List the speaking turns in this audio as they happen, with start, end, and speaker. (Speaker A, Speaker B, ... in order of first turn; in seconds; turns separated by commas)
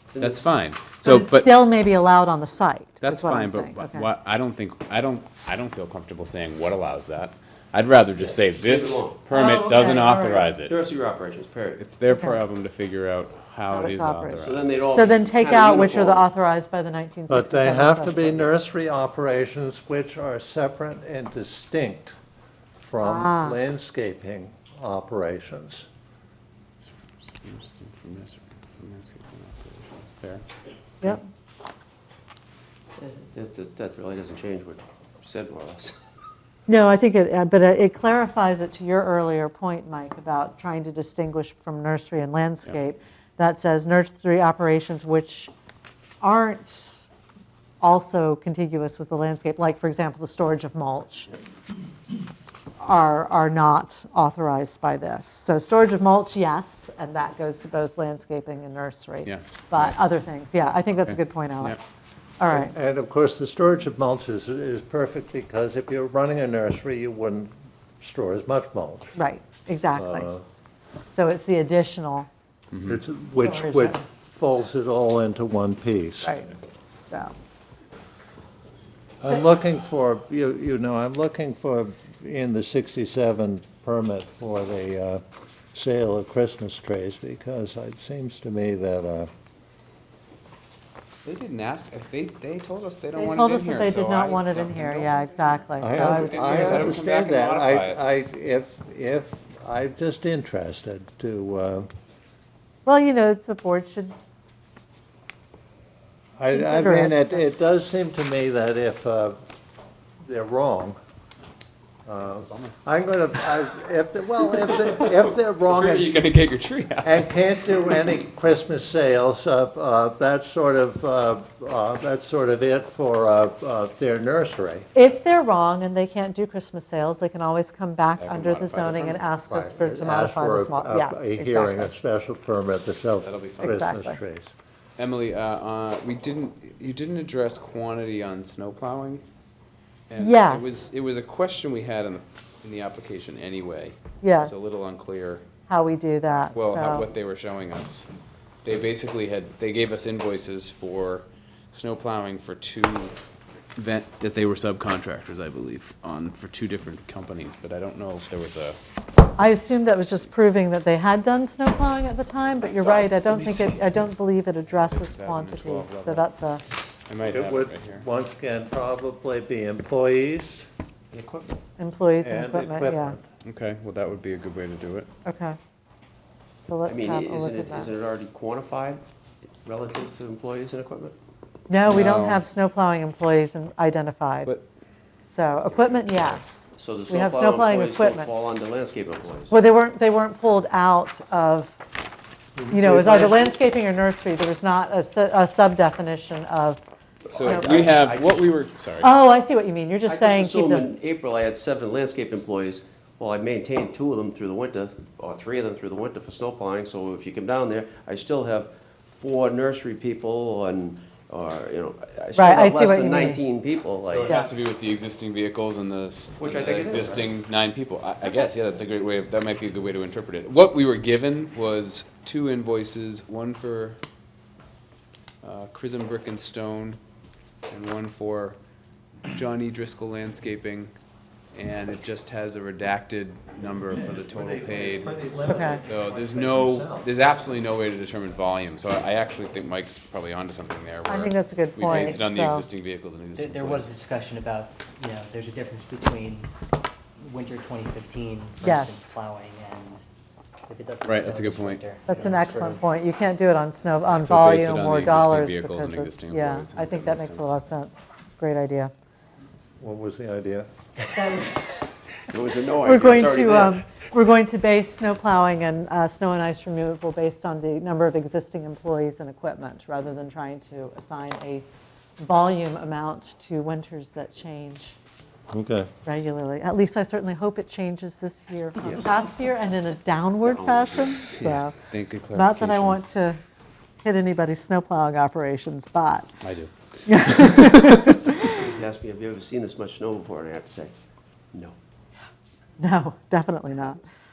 Speaker A: 0.1-0.5, Speaker B: 0.2-1.5, Speaker C: 1.0-4.1, Speaker B: 3.0-10.7, Speaker A: 8.2-9.2, Speaker C: 9.3-10.5, Speaker A: 10.6-11.8, Speaker B: 11.8-14.9, Speaker C: 12.1-12.4, Speaker C: 13.7-18.5, Speaker A: 14.4-16.2, Speaker D: 17.3-22.2, Speaker D: 22.8-25.9, Speaker C: 23.0-23.6, Speaker B: 26.8-30.4, Speaker A: 33.1-35.9, Speaker C: 36.7-45.5, Speaker C: 46.2-47.0, Speaker C: 47.8-51.3, Speaker C: 52.8-61.9, Speaker B: 59.2-60.0, Speaker B: 61.0-61.8, Speaker C: 62.4-62.7, Speaker D: 62.5-69.1, Speaker C: 69.2-70.3, Speaker D: 70.0-70.4, Speaker C: 71.1-72.3, Speaker B: 72.7-73.0, Speaker D: 72.8-76.4, Speaker C: 73.3-74.0, Speaker C: 76.2-76.5, Speaker D: 79.2-85.2, Speaker D: 85.7-89.3, Speaker B: 91.2-95.2, Speaker C: 93.2-97.0, Speaker D: 95.8-101.9, Speaker B: 95.9-98.0, Speaker C: 102.8-104.1, Speaker D: 106.4-109.4, Speaker C: 106.5-107.4, Speaker D: 110.2-111.0, Speaker D: 112.0-116.2, Speaker B: 112.3-112.7, Speaker B: 114.5-117.3, Speaker D: 117.0-124.9, Speaker C: 124.9-131.9, Speaker B: 128.2-129.2, Speaker D: 129.5-134.5, Speaker B: 133.2-133.9, Speaker C: 133.6-134.2, Speaker B: 135.0-139.2, Speaker B: 140.1-145.4, Speaker C: 140.2-140.8, Speaker C: 144.2-144.6, Speaker C: 145.7-147.1, Speaker B: 146.4-148.1, Speaker B: 148.6-153.1, Speaker B: 153.8-158.8, Speaker C: 159.4-166.6, Speaker B: 160.0-160.3, Speaker A: 162.8-163.1, Speaker B: 163.3-163.7, Speaker B: 164.8-166.2, Speaker B: 167.1-168.0, Speaker D: 167.3-170.7, Speaker A: 171.1-171.6, Speaker C: 171.8-173.2, Speaker D: 172.2-173.2, Speaker B: 173.4-175.1, Speaker C: 175.2-175.6, Speaker C: 176.7-177.9, Speaker A: 176.8-179.0, Speaker A: 179.6-181.1, Speaker C: 181.7-184.5, Speaker B: 181.8-182.4, Speaker C: 185.2-188.3, Speaker A: 186.7-189.6, Speaker C: 189.5-191.7, Speaker A: 192.6-193.5, Speaker C: 192.7-196.8, Speaker A: 197.3-198.4, Speaker B: 197.3-199.1, Speaker C: 197.4-197.9, Speaker C: 199.0-200.8, Speaker A: 200.1-214.3, Speaker C: 212.3-213.4, Speaker B: 214.0-224.0, Speaker C: 214.2-214.5, Speaker A: 216.4-217.3, Speaker B: 225.4-227.0, Speaker B: 227.7-228.6, Speaker B: 229.3-230.9, Speaker B: 231.5-243.9, Speaker D: 234.2-237.1, Speaker C: 235.4-235.8, Speaker C: 241.1-242.7, Speaker E: 243.3-246.5, Speaker E: 247.2-250.0, Speaker C: 248.6-248.9, Speaker E: 250.7-252.8, Speaker B: 251.0-251.8, Speaker C: 252.1-258.9, Speaker B: 254.1-257.6, Speaker D: 259.8-260.7, Speaker C: 261.2-261.5, Speaker A: 262.3-263.8, Speaker C: 262.8-271.6, Speaker C: 272.2-274.9, Speaker D: 275.5-275.9, Speaker C: 276.0-281.7, Speaker A: 280.4-281.6, Speaker B: 281.4-283.0, Speaker C: 282.3-283.4, Speaker C: 284.0-286.3, Speaker B: 286.4-288.1, Speaker C: 287.1-288.6, Speaker A: 288.5-290.9, Speaker C: 292.8-294.0